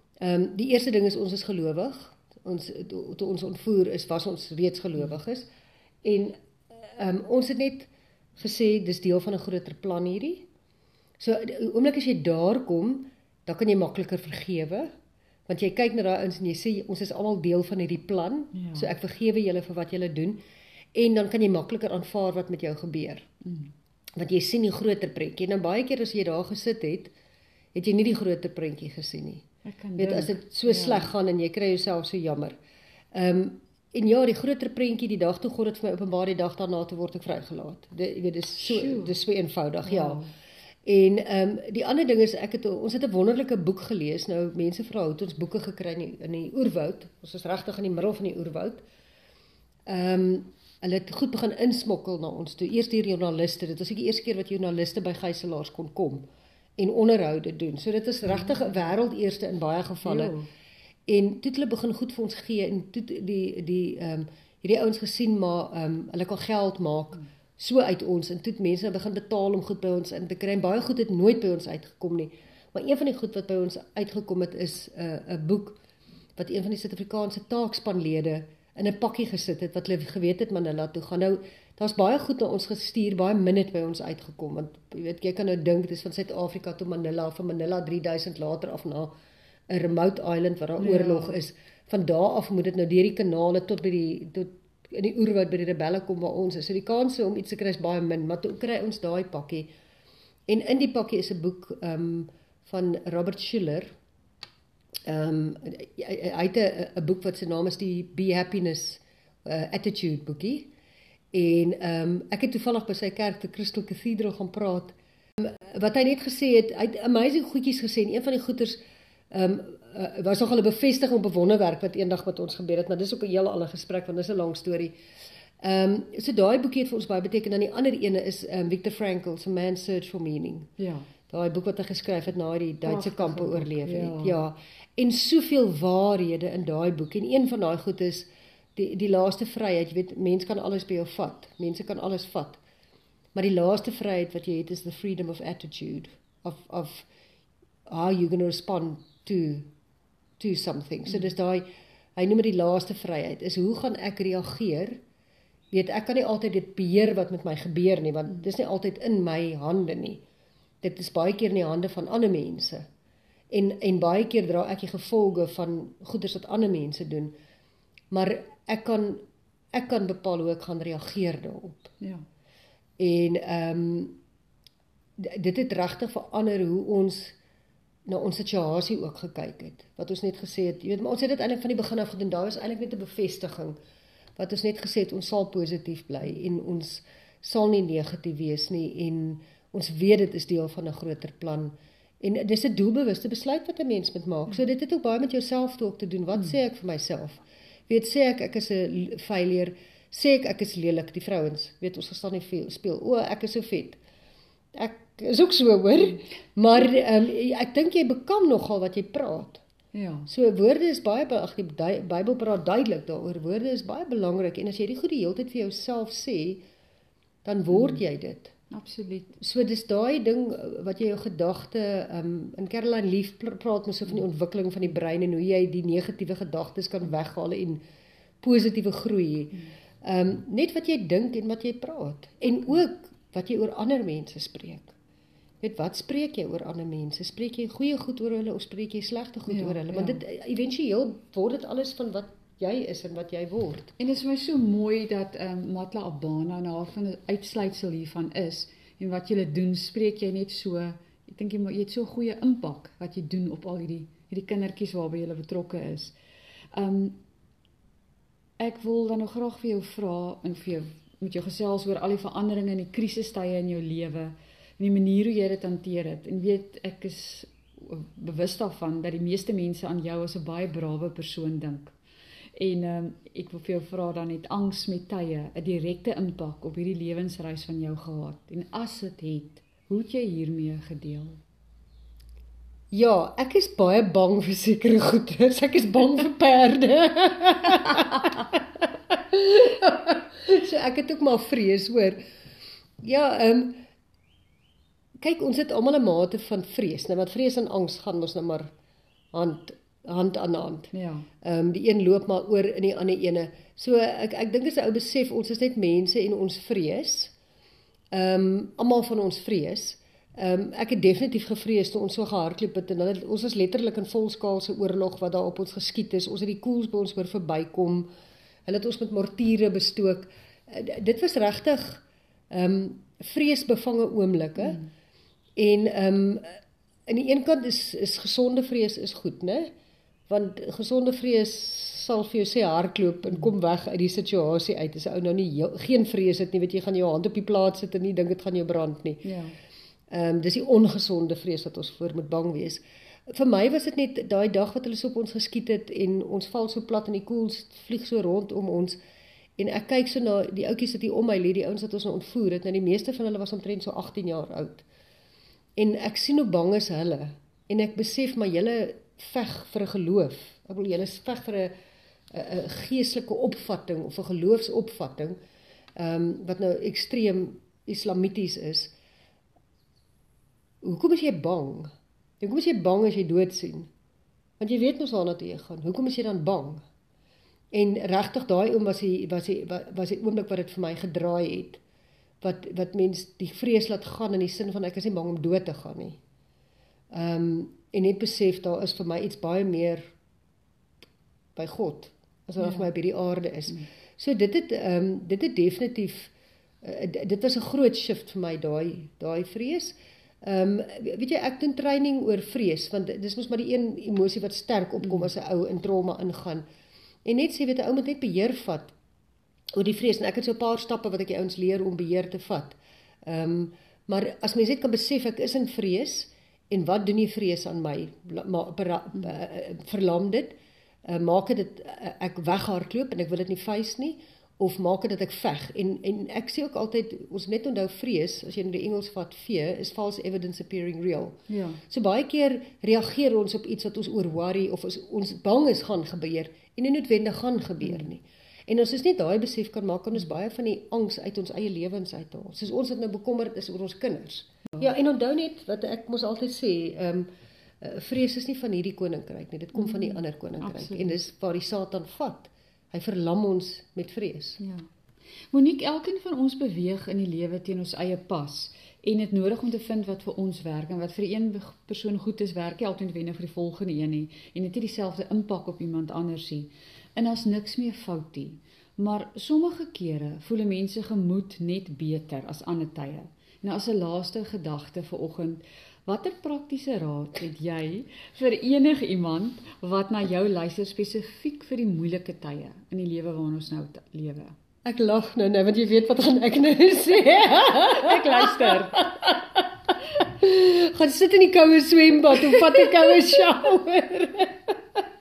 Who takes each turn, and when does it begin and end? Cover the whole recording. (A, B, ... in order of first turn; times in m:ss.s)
0:00.2-0:05.5 A
0:06.0-0:10.4 A
0:11.2-0:14.9 A
0:15.5-0:20.4 A
0:18.5-0:18.9 B
0:20.9-0:23.3 A
0:23.4-0:23.7 B
0:24.2-0:27.1 A
0:27.7-0:29.4 A
0:29.6-0:31.1 B
0:30.0-0:32.6 A
0:33.1-0:40.2 A
0:38.6-0:39.1 B
0:39.8-0:40.3 B
0:40.8-0:48.8 A
0:49.9-0:56.2 A
0:56.8-1:00.4 A
0:58.3-0:58.7 B
1:00.0-1:00.5 B
1:01.1-1:15.8 A
1:16.4-1:29.1 A
1:29.7-1:39.7 A
1:30.8-1:31.4 B
1:40.5-1:43.9 A
1:45.0-1:50.7 A
1:51.3-1:58.8 A
1:59.3-2:04.9 A
2:05.6-2:10.7 A
2:10.8-2:11.1 B
2:11.3-2:22.6 A
2:12.8-2:14.4 B
2:23.3-2:27.1 A
2:27.9-2:29.7 A
2:30.4-2:35.0 A
2:35.7-2:40.2 A
2:40.8-2:42.8 A
2:43.5-2:47.3 A
2:48.1-2:49.2 A
2:49.7-2:51.9 A
2:53.0-2:54.2 A
2:55.2-2:57.4 A
2:58.0-3:03.8 A
3:04.4-3:24.0 A
3:24.7-3:29.6 A
3:29.9-3:30.3 B
3:30.3-3:36.6 A
3:37.4-3:38.5 A
3:38.7-3:39.3 B
3:39.4-3:47.8 A
3:48.4-3:54.9 A
3:55.6-4:03.9 A
3:59.5-4:00.2 B
4:04.0-4:16.1 B
4:16.7-4:17.2 B
4:18.6-4:32.0 B
4:32.6-4:41.4 B
4:42.9-4:52.2 A
4:53.0-4:53.8 A
4:55.2-4:58.7 A
4:59.3-5:07.3 A
5:00.9-5:01.3 B
5:08.1-5:18.1 A
5:18.6-5:24.8 A
5:25.6-5:29.7 A
5:30.3-5:39.2 A
5:39.2-5:39.5 B
5:40.1-5:49.0 A
5:49.6-5:54.8 A
5:55.8-6:01.7 A
6:02.3-6:05.4 A
6:06.0-6:08.9 A
6:10.8-6:11.9 A
6:12.4-6:13.9 A
6:14.6-6:16.8 A
6:17.7-6:21.8 A
6:22.4-6:26.2 A
6:27.1-6:30.1 A
6:31.6-6:36.3 A
6:32.6-6:32.9 B
6:36.8-6:46.6 A
6:47.2-6:48.9 A
6:49.8-7:11.4 A
7:11.5-7:11.8 B
7:11.9-7:27.3 A
7:27.8-7:34.6 A
7:30.6-7:31.2 B
7:34.6-7:34.8 B
7:35.5-8:04.5 B
8:04.8-8:09.7 A
8:07.9-8:09.0 B
8:10.2-8:15.0 A